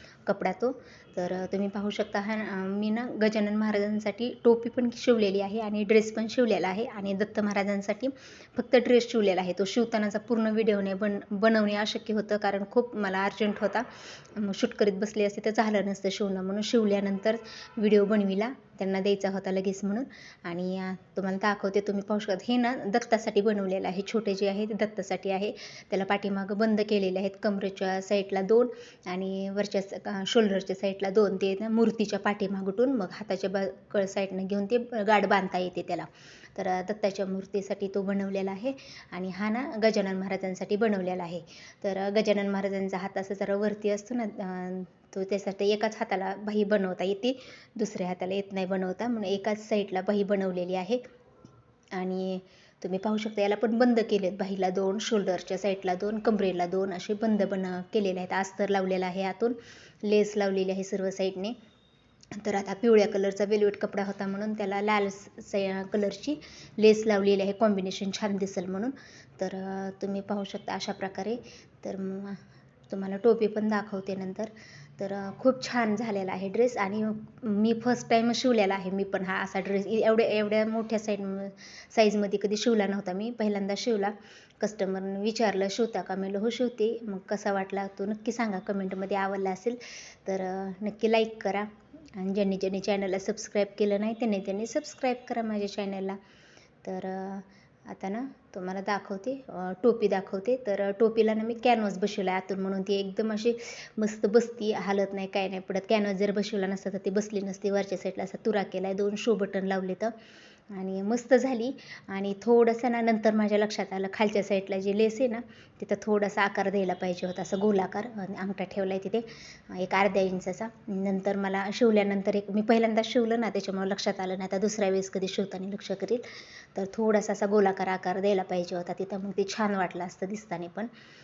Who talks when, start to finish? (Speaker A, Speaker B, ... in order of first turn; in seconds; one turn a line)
Speaker A: 0.3-51.0
Speaker A: 52.0-61.6
Speaker A: 62.3-96.2
Speaker A: 96.8-110.1
Speaker A: 110.7-130.9